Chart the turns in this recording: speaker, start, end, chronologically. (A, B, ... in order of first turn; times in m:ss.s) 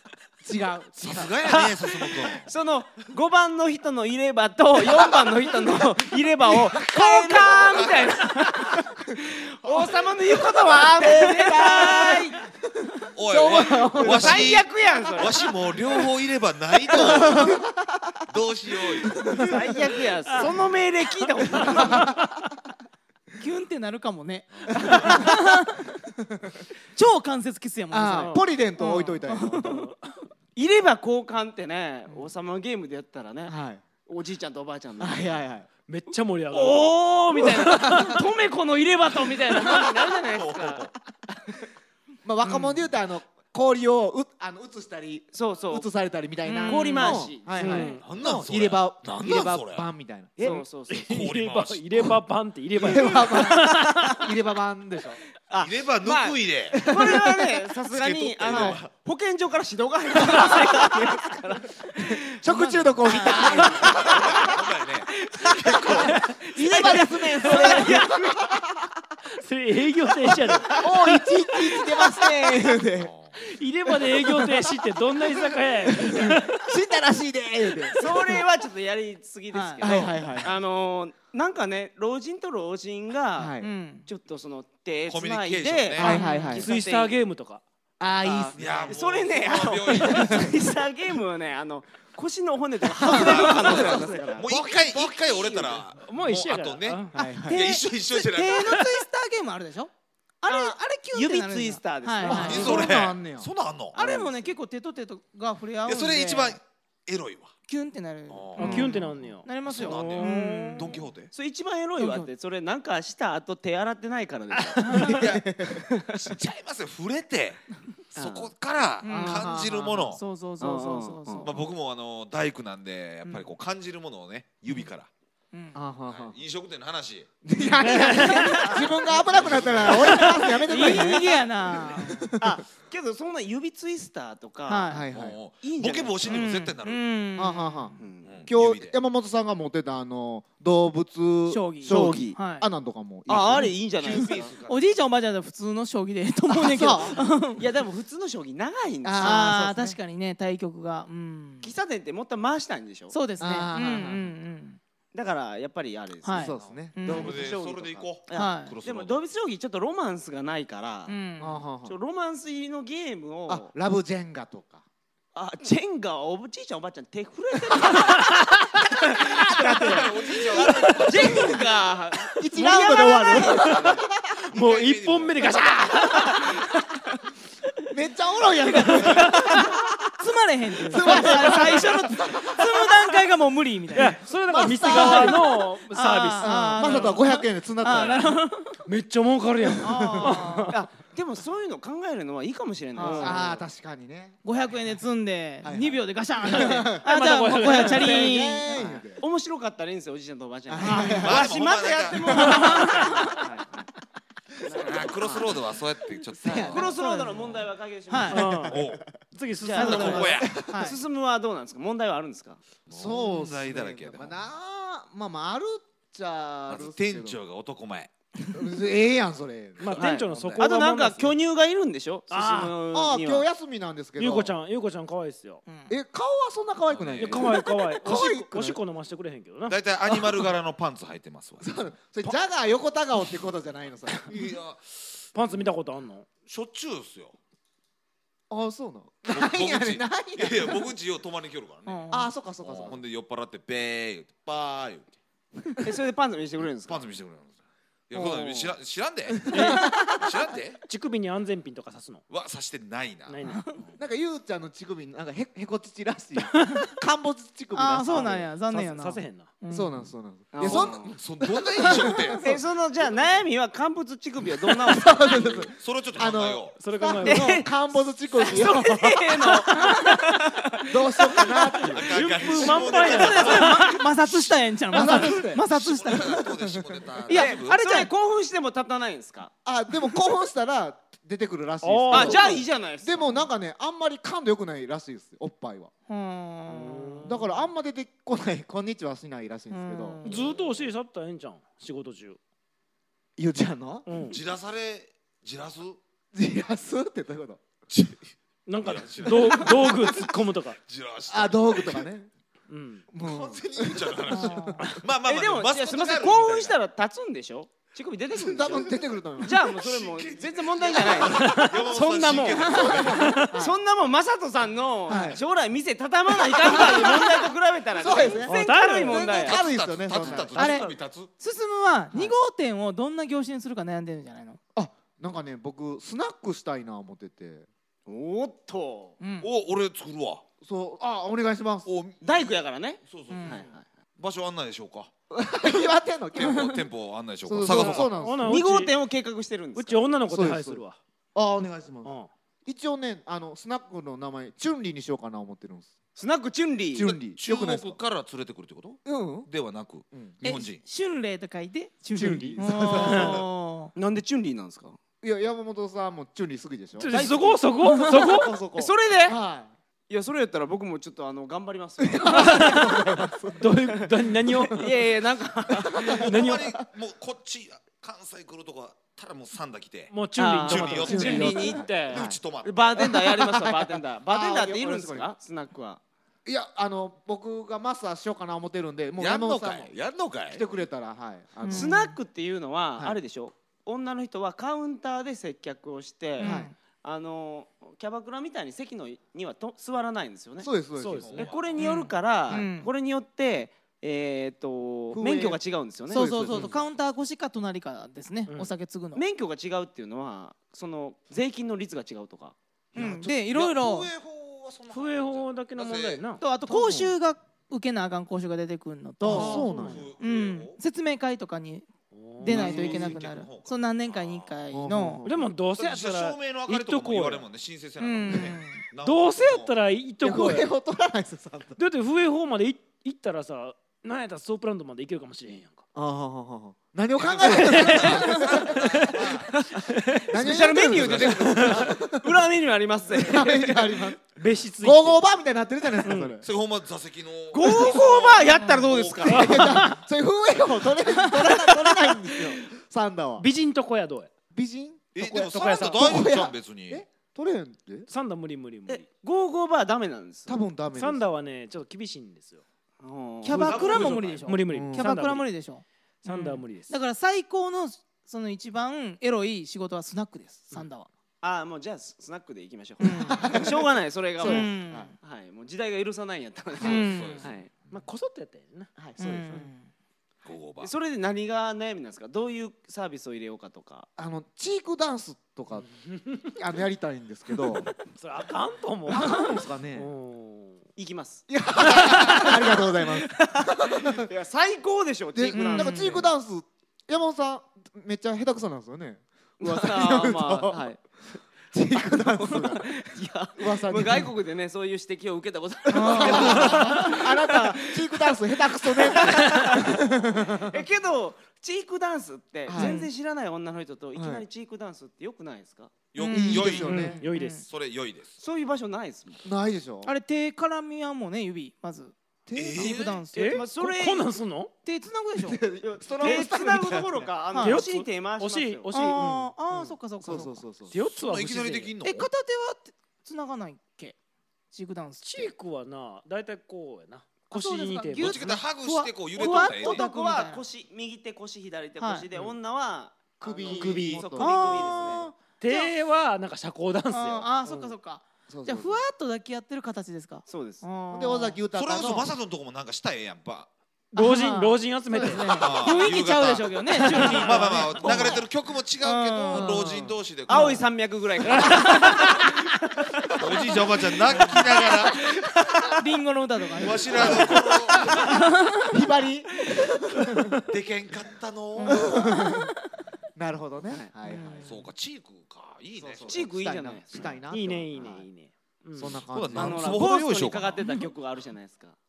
0:00.4-0:01.6 A
0:01.0-0:02.5 B
0:02.3-0:12.4 C
0:06.8-0:07.7 A
0:07.3-0:08.1 B
0:10.6-0:12.3 A
0:13.1-0:17.6 B
0:13.3-0:14.4 A
0:13.9-0:15.5 C
0:16.9-0:18.2 A
0:18.3-0:19.5 B
0:19.0-0:19.5 A
0:19.4-0:22.1 C
0:21.6-0:22.2 A
0:23.4-0:26.0 D
0:24.7-0:25.6 A
0:26.9-0:29.9 D
0:27.9-0:29.8 A
0:28.2-0:28.4 E
0:30.5-0:33.5 C
0:33.5-0:33.8 A
0:34.0-0:35.4 C
0:35.0-0:35.7 A
0:35.9-0:38.2 E
0:36.5-0:40.9 C
0:40.3-0:40.9 B
0:42.2-0:50.6 A
0:45.3-0:45.9 C
0:46.4-0:48.0 D
0:46.6-0:48.0 C
0:47.6-0:48.0 E
0:48.0-0:49.9 B
0:50.4-0:51.2 C
0:50.4-0:54.3 E
0:51.0-0:52.1 B
0:52.8-0:55.2 A
0:55.5-1:02.2 C
0:55.6-0:56.8 B
0:56.7-0:57.2 A
0:57.9-0:58.9 B
0:58.5-0:58.8 A
1:02.3-1:04.4 A
1:02.6-1:03.9 D
1:03.2-1:04.1 C
1:03.7-1:06.2 B
1:05.0-1:08.4 C
1:06.0-1:08.8 A
1:07.4-1:08.0 E
1:09.4-1:11.2 E
1:10.7-1:13.1 A
1:13.0-1:13.4 B
1:13.4-1:16.7 E
1:14.2-1:14.7 A
1:15.8-1:18.4 A
1:17.9-1:27.1 C
1:19.5-1:20.1 D
1:19.8-1:20.5 A
1:23.4-1:23.7 A
1:23.6-1:24.1 D
1:25.1-1:26.2 B
1:26.0-1:26.7 A
1:26.0-1:26.6 D
1:26.5-1:27.6 E
1:28.0-1:29.0 A
1:28.2-1:35.8 C
1:28.5-1:30.5 B
1:30.1-1:30.5 A
1:33.0-1:35.0 A
1:33.1-1:38.9 B
1:36.0-1:37.2 E
1:37.1-1:37.7 A
1:37.5-1:39.9 D
1:40.4-1:42.9 D
1:40.4-1:42.8 C
1:42.2-1:43.5 A
1:42.3-1:44.0 B
1:43.9-1:44.4 C
1:43.9-1:46.6 D
1:45.8-1:47.5 B
1:47.7-1:51.0 D
1:48.3-1:51.3 B
1:48.6-1:50.9 E
1:51.3-1:55.2 C
1:52.0-1:52.3 D
1:54.8-1:55.2 D
1:55.0-1:55.5 B
1:55.2-1:55.8 A
1:55.7-1:56.2 C
1:56.0-1:57.6 B
1:58.1-1:58.5 C
1:58.1-2:00.2 B
1:59.0-1:59.6 D
1:59.0-2:00.0 A
2:00.1-2:01.6 D
2:00.6-2:01.5 C
2:01.4-2:05.1 B
2:05.5-2:05.8 D
2:05.7-2:06.3 A
2:06.1-2:07.3 B
2:07.4-2:12.6 A
2:07.7-2:08.7 E
2:08.2-2:08.9 D
2:09.2-2:10.0 B
2:10.0-2:10.5 E
2:10.4-2:12.3 D
2:10.7-2:11.2 C
2:12.4-2:15.0 C
2:14.6-2:15.1 D
2:14.9-2:15.4 A
2:15.1-2:17.1 B
2:15.6-2:16.4 C
2:16.2-2:18.0 D
2:17.4-2:23.7 A
2:18.0-2:18.4 C
2:18.2-2:19.0 B
2:21.5-2:22.7 D
2:21.8-2:22.4 C
2:23.3-2:24.5 C
2:23.3-2:25.0 B
2:24.6-2:27.6 D
2:26.5-2:27.3 A
2:27.6-2:29.5 C
2:29.0-2:30.0 A
2:29.2-2:31.7 D
2:31.6-2:33.1 C
2:33.1-2:34.8 D
2:33.4-2:34.3 A
2:35.1-2:41.2 C
2:36.2-2:37.4 D
2:36.3-2:37.3 A
2:36.6-2:39.2 B
2:38.3-2:38.8 D
2:41.1-2:41.6 D
2:41.4-2:42.0 A
2:41.8-2:43.7 C
2:43.5-2:44.8 A
2:45.3-2:48.4 C
2:49.0-2:54.0 C
2:49.5-2:51.6 B
2:50.6-2:51.5 A
2:52.3-2:54.0 A
2:52.8-2:53.5 D
2:54.5-2:55.8 B
2:54.5-2:56.6 E
2:57.9-2:59.9 A
2:58.7-3:08.8 D
2:58.9-2:59.3 E
3:00.8-3:02.7 A
3:03.9-3:07.2 E
3:04.3-3:05.5 A
3:06.4-3:08.4 A
3:08.8-3:10.7 E
3:09.8-3:10.7 D
3:09.9-3:10.5 A
3:10.7-3:13.6 C
3:13.0-3:13.4 D
3:13.2-3:14.4 A
3:14.4-3:18.9 D
3:15.6-3:17.1 A
3:16.4-3:18.4 E
3:17.6-3:19.2 A
3:18.7-3:23.9 C
3:20.7-3:21.5 A
3:20.8-3:21.2 D
3:21.1-3:22.5 B
3:22.3-3:23.4 D
3:24.6-3:25.6 C
3:24.8-3:26.9 B
3:26.3-3:26.9 A
3:26.5-3:28.5 C
3:26.7-3:28.6 D
3:28.3-3:30.3 E
3:28.4-3:29.0 A
3:28.7-3:29.1 B
3:29.6-3:32.6 C
3:29.7-3:31.0 D
3:29.8-3:30.6 B
3:29.8-3:30.9 A
3:32.9-3:34.4 B
3:32.9-3:37.4 A
3:36.7-3:38.1 B
3:38.5-3:40.0 A
3:39.8-3:41.3 E
3:39.8-3:40.6 B
3:40.0-3:43.4 C
3:42.3-3:42.8 E
3:42.9-3:44.5 A
3:44.2-3:45.6 E
3:45.6-3:45.9 D
3:45.9-3:48.8 A
3:46.9-3:47.6 B
3:47.2-3:50.2 E
3:49.7-3:51.8 B
3:51.6-3:54.3 A
3:54.2-3:55.2 B
3:55.3-3:56.3 E
3:56.4-3:57.3 B
3:58.5-4:00.9 A
3:59.3-4:05.1 B
4:01.8-4:02.3 D
4:02.1-4:03.0 A
4:05.8-4:07.1 C
4:06.8-4:07.5 B
4:08.1-4:10.8 B
4:08.1-4:08.7 C
4:09.5-4:10.2 A
4:09.5-4:10.1 E
4:10.8-4:12.2 E
4:12.3-4:13.4 B
4:13.3-4:13.7 E
4:14.0-4:18.5 A
4:17.7-4:19.9 D
4:18.1-4:19.5 E
4:19.7-4:21.2 A
4:20.5-4:21.1 C
4:20.6-4:22.6 B
4:21.8-4:22.4 A
4:22.0-4:22.3 D
4:22.4-4:25.6 C
4:24.8-4:29.5 A
4:25.4-4:26.8 B
4:26.8-4:27.6 E
4:27.2-4:27.6 D
4:28.3-4:33.4 C
4:29.7-4:30.2 D
4:30.9-4:32.1 A
4:31.9-4:37.8 B
4:32.1-4:33.9 E
4:32.8-4:36.5 D
4:34.9-4:37.1 A
4:37.3-4:38.1 D
4:37.3-4:39.5 C
4:39.6-4:45.9 A
4:41.8-4:42.6 E
4:42.1-4:43.5 C
4:46.1-4:47.4 D
4:46.7-4:47.4 E
4:47.2-4:50.2 A
4:49.7-4:50.6 D
4:50.2-4:52.4 E
4:53.4-4:54.1 A
4:54.0-4:54.4 E
4:54.3-4:56.0 B
4:56.3-4:57.6 A
4:57.9-5:02.1 B
4:58.7-5:00.8 E
5:01.3-5:02.3 A
5:02.7-5:03.0 E
5:03.1-5:04.7 A
5:03.2-5:06.8 B
5:04.3-5:04.9 D
5:05.2-5:13.0 C
5:08.4-5:09.6 A
5:09.6-5:13.3 B
5:11.3-5:11.7 E
5:12.5-5:13.8 A
5:12.7-5:13.0 D
5:13.1-5:13.5 E
5:13.5-5:19.6 C
5:15.1-5:15.4 A
5:16.6-5:17.1 A
5:18.0-5:20.8 A
5:18.4-5:19.3 E
5:19.3-5:21.3 B
5:20.2-5:20.5 C
5:20.5-5:24.6 D
5:24.7-5:27.7 A
5:28.1-5:29.2 C
5:29.2-5:29.5 D
5:29.4-5:30.4 B
5:30.6-5:31.9 A
5:31.8-5:33.7 B
5:32.2-5:33.8 C
5:33.3-5:33.7 D
5:34.2-5:35.1 B
5:35.3-5:36.8 A
5:36.4-5:38.1 B
5:36.4-5:36.8 D
5:37.4-5:38.6 A
5:37.6-5:38.9 E
5:38.4-5:40.0 C
5:39.7-5:41.0 E
5:40.3-5:40.8 A
5:41.3-5:42.1 A
5:42.0-5:42.3 E
5:42.6-5:45.9 A
5:46.2-5:47.2 C
5:46.9-5:48.0 A
5:47.3-5:50.8 B
5:49.0-5:49.5 A
5:50.1-5:50.4 A
5:50.4-5:53.9 D
5:52.1-5:53.5 A
5:52.2-5:53.1 E
5:53.9-5:55.0 C
5:55.2-5:59.7 A
5:57.0-5:58.6 E
5:57.8-5:58.3 D
5:58.7-5:59.4 C
6:00.1-6:02.8 C
6:02.0-6:03.7 A
6:02.2-6:04.9 E
6:04.4-6:06.5 C
6:05.9-6:06.2 A
6:06.0-6:13.2 B
6:06.2-6:06.7 E
6:10.1-6:11.8 E
6:10.4-6:16.0 C
6:11.0-6:12.4 A
6:13.2-6:15.3 A
6:16.4-6:22.1 A
6:19.2-6:20.6 B
6:21.6-6:22.1 D
6:21.7-6:30.7 C
6:26.4-6:26.7 D
6:26.4-6:26.7 A
6:30.6-6:31.3 A
6:31.0-6:31.5 E
6:31.2-6:31.8 B
6:31.3-6:36.6 C
6:31.8-6:32.9 D
6:35.1-6:36.7 A
6:36.1-6:39.2 D
6:38.5-6:38.7 E
6:39.1-6:42.6 C
6:42.9-6:43.3 A
6:43.0-6:44.1 D
6:43.0-6:46.3 B
6:44.9-6:46.4 E
6:46.4-6:51.9 D
6:46.7-6:47.1 A
6:49.2-6:50.0 A
6:49.3-6:49.9 E
6:49.6-6:50.8 B
6:52.1-6:52.8 E
6:52.4-6:55.2 D
6:52.4-6:54.6 B
6:52.5-6:53.1 A
6:54.7-6:55.5 A
6:55.2-6:57.5 E
6:55.7-6:59.7 B
6:58.0-6:58.8 D
6:59.0-7:00.7 E
7:00.2-7:01.8 A
7:01.8-7:05.8 E
7:05.9-7:09.2 A
7:07.2-7:09.5 B
7:07.4-7:10.3 E
7:10.3-7:12.4 A
7:10.3-7:14.1 C
7:10.8-7:11.8 B
7:11.4-7:11.9 E
7:13.1-7:16.4 A
7:14.4-7:15.2 E
7:16.0-7:16.4 E
7:16.4-7:19.6 B
7:17.5-7:19.5 C
7:19.2-7:23.5 A
7:19.3-7:20.0 E
7:23.4-7:24.3 E
7:24.5-7:28.1 A
7:25.1-7:27.0 B
7:25.2-7:26.1 E
7:28.1-7:29.0 E
7:28.9-7:30.6 C
7:30.5-7:31.2 A
7:30.9-7:32.6 E
7:33.0-7:34.2 C
7:33.4-7:41.1 D
7:33.5-7:34.5 B
7:33.8-7:35.5 E
7:34.6-7:35.1 A
7:36.2-7:37.0 E
7:41.4-7:47.7 C
7:43.0-7:43.6 D
7:43.3-7:43.8 A
7:44.4-7:45.1 A
7:44.4-7:45.1 D
7:46.8-7:47.5 D
7:46.8-7:47.9 B
7:47.9-7:48.9 E
7:49.0-7:49.7 A
7:49.2-7:49.9 D
7:50.4-7:50.9 B
7:50.8-7:54.1 C
7:54.2-7:55.9 A
7:55.8-7:56.5 E
7:56.5-7:57.9 A
7:57.9-8:00.8 E
7:59.1-8:00.1 A
8:01.0-8:01.4 C
8:01.5-8:04.3 A
8:01.9-8:02.6 E
8:03.4-8:06.2 C
8:05.3-8:10.9 A
8:05.5-8:06.2 D
8:09.6-8:11.0 C
8:11.7-8:12.9 A
8:12.3-8:25.9 C
8:13.5-8:14.3 A
8:15.9-8:17.1 D
8:16.0-8:20.8 A
8:22.7-8:23.0 A
8:22.7-8:23.1 D
8:24.1-8:24.4 A
8:26.1-8:28.4 B
8:26.2-8:27.6 D
8:26.3-8:27.2 A
8:26.8-8:27.6 E
8:28.4-8:29.4 C
8:29.4-8:30.1 A
8:30.0-8:32.1 D
8:32.5-8:33.0 A
8:32.5-8:33.2 B
8:32.8-8:33.7 D
8:33.3-8:34.7 E
8:33.5-8:34.3 C
8:34.8-8:35.6 D
8:35.4-8:37.3 A
8:35.8-8:39.2 C
8:37.5-8:37.8 D
8:37.6-8:39.5 E
8:38.9-8:40.6 D
8:40.2-8:41.0 A
8:40.9-8:41.9 E
8:41.1-8:42.3 B
8:42.0-8:44.2 D
8:44.7-8:45.5 D
8:45.2-8:48.7 E
8:47.5-8:50.6 D
8:48.2-8:50.0 B
8:49.4-8:55.3 C
8:52.0-8:52.3 D
8:53.4-8:55.2 A
8:53.7-8:54.3 E
8:54.4-8:55.9 D
8:55.6-8:57.9 E
8:57.1-9:01.6 D
8:58.5-8:59.0 A
9:00.5-9:00.8 C
9:01.1-9:02.3 A
9:01.7-9:03.7 B
9:04.1-9:05.7 E
9:04.2-9:08.5 D
9:05.3-9:10.8 B
9:07.0-9:08.2 E
9:09.0-9:10.8 D
9:10.5-9:12.3 C
9:11.4-9:12.3 E
9:11.6-9:12.4 D
9:13.3-9:15.5 B
9:16.0-9:19.0 D
9:16.7-9:18.3 B
9:17.2-9:17.6 A
9:18.8-9:20.6 A
9:20.6-9:22.3 B
9:21.8-9:22.7 D
9:21.8-9:22.7 A
9:23.4-9:24.8 A
9:24.2-9:24.9 D
9:24.6-9:26.5 B
9:26.0-9:28.2 A
9:26.2-9:27.3 C
9:27.5-9:29.2 E
9:29.0-9:30.0 A
9:29.0-9:30.8 B
9:29.5-9:32.0 C